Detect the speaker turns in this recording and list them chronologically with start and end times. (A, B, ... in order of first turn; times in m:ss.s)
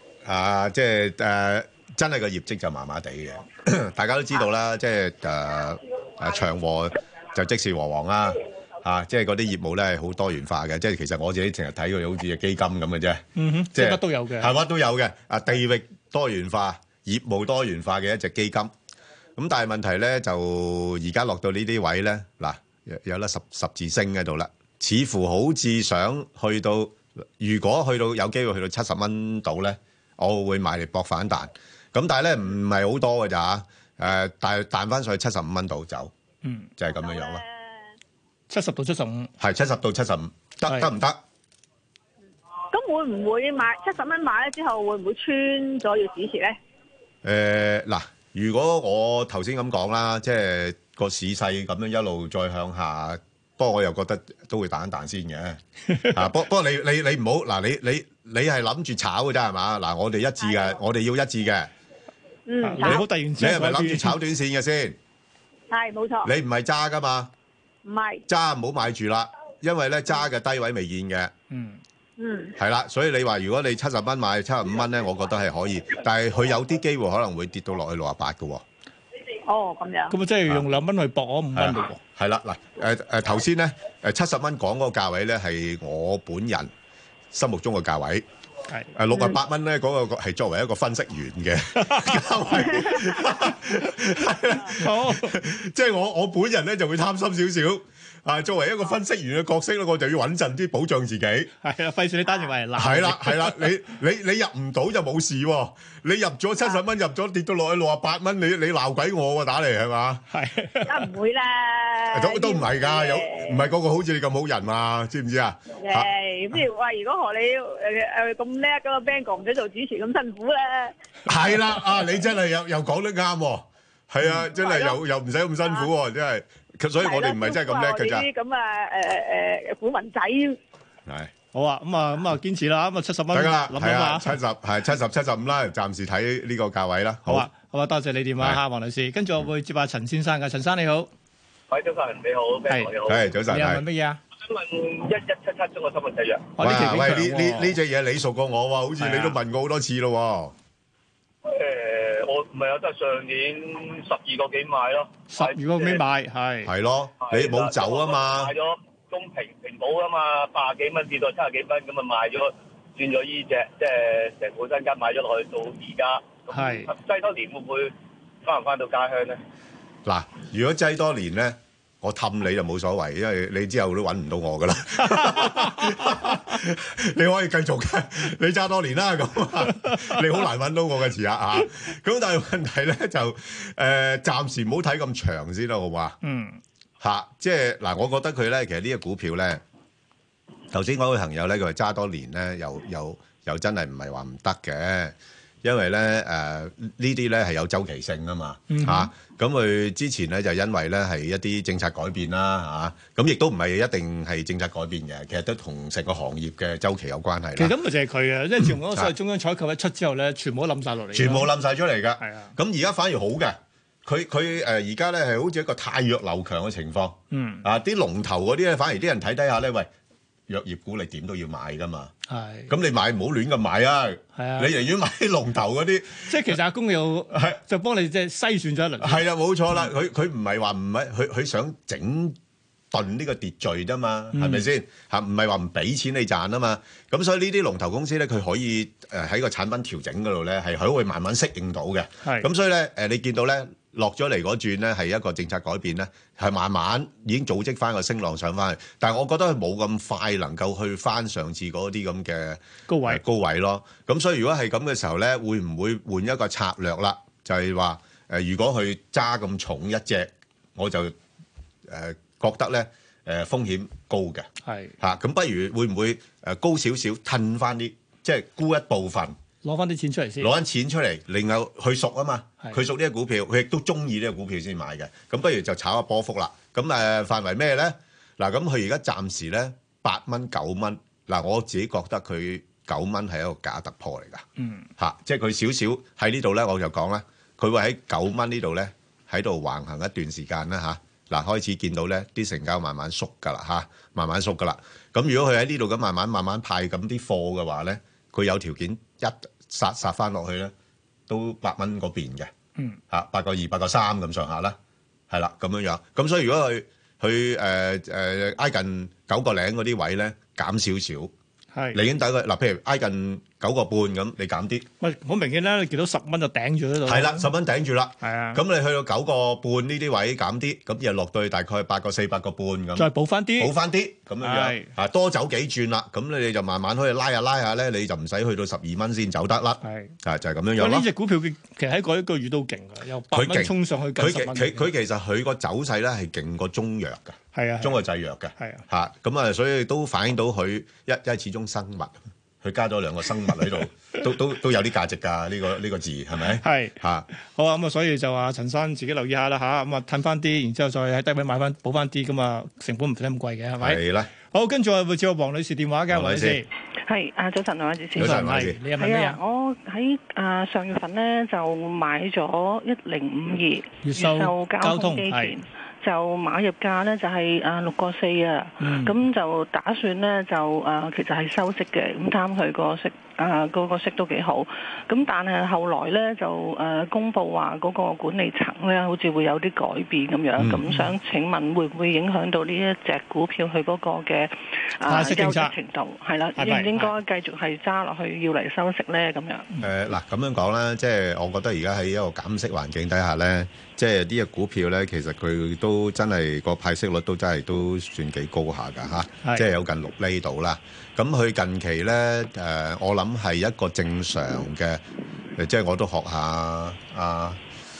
0:00.2-0:18.7 A
0:13.4-0:14.5 B
0:19.4-0:36.1 A
0:36.4-0:36.7 B
0:36.8-0:37.4 A
0:37.0-0:37.7 C
0:38.5-0:39.3 B
0:39.4-0:41.2 A
0:42.7-0:46.6 C
0:47.2-0:55.6 A
0:55.9-0:56.2 B
0:56.1-1:01.7 A
1:00.4-1:00.8 C
1:02.5-1:03.0 C
1:02.6-1:04.2 B
1:03.4-1:05.0 A
1:05.7-1:06.3 C
1:06.2-1:07.3 A
1:07.8-1:08.2 C
1:08.3-1:11.3 A
1:11.5-1:11.8 B
1:12.2-1:12.5 C
1:12.6-1:18.6 A
1:19.4-1:20.1 C
1:20.1-1:22.0 B
1:21.5-1:26.7 A
1:27.3-1:28.2 A
1:28.7-1:29.0 B
1:29.0-1:41.5 A
1:31.8-1:32.2 B
1:34.8-1:35.3 B
1:41.6-1:43.7 B
1:42.8-1:50.2 A
1:50.3-1:51.0 B
1:50.8-1:53.6 C
1:52.1-1:56.1 A
1:55.8-2:00.9 C
2:01.2-2:08.3 A
2:04.6-2:05.0 C
2:05.6-2:05.9 C
2:07.0-2:10.6 C
2:11.1-2:11.3 A
2:11.5-2:14.4 B
2:13.3-2:17.5 A
2:17.3-2:21.1 B
2:21.7-2:23.2 D
2:22.7-2:22.9 B
2:23.0-2:23.8 A
2:23.5-2:24.2 B
2:24.4-2:26.5 D
2:26.6-2:27.8 B
2:26.6-2:30.5 A
2:29.0-2:29.4 B
2:31.4-2:36.0 D
2:35.3-2:36.7 B
2:36.6-2:38.5 A
2:37.2-2:47.9 D
2:46.5-2:46.9 B
2:48.4-2:49.4 D
2:50.0-3:06.2 A
2:55.0-2:56.4 B
2:59.8-3:00.1 B
3:06.2-3:06.6 B
3:07.0-3:09.6 A
3:10.7-3:27.7 A
3:18.7-3:19.1 B
3:27.6-3:31.5 B
3:28.6-3:29.1 A
3:31.1-3:39.9 A
3:32.2-3:32.5 B
3:37.3-3:37.6 B
3:40.5-3:42.1 A
3:42.3-3:42.7 B
3:42.7-3:46.5 A
3:44.4-3:44.7 B
3:46.2-3:49.2 B
3:47.3-3:47.6 A
3:49.0-3:52.4 A
3:52.9-4:21.1 A
3:54.3-3:54.6 B
4:12.9-4:13.2 B
4:21.8-4:24.5 A
4:24.6-4:24.9 B
4:25.0-4:29.4 A
4:29.6-4:30.5 B
4:30.4-4:44.4 A
4:44.6-4:44.9 B
4:45.0-5:00.7 A
5:01.3-5:02.5 A
5:03.1-5:04.8 A
5:05.3-5:11.3 A
5:11.7-5:12.0 B
5:11.9-5:14.8 A
5:15.0-5:17.5 B
5:17.0-5:31.1 A
5:18.2-5:18.6 B
5:23.0-5:23.7 B
5:24.4-5:24.9 B
5:29.8-5:30.1 B
5:30.8-5:34.9 B
5:33.3-5:47.3 A
5:37.5-5:38.0 B
5:38.6-5:38.8 B
5:46.6-5:56.7 B
5:53.8-5:54.3 A
5:56.1-5:56.6 A
5:57.1-5:58.4 E
5:58.1-5:59.4 B
5:58.2-5:58.8 A
5:59.0-6:29.7 E
6:04.0-6:05.6 B
6:08.8-6:09.2 B
6:20.8-6:21.1 B
6:25.0-6:25.8 B
6:26.6-6:27.1 B
6:29.8-6:45.0 A
6:45.6-6:47.6 A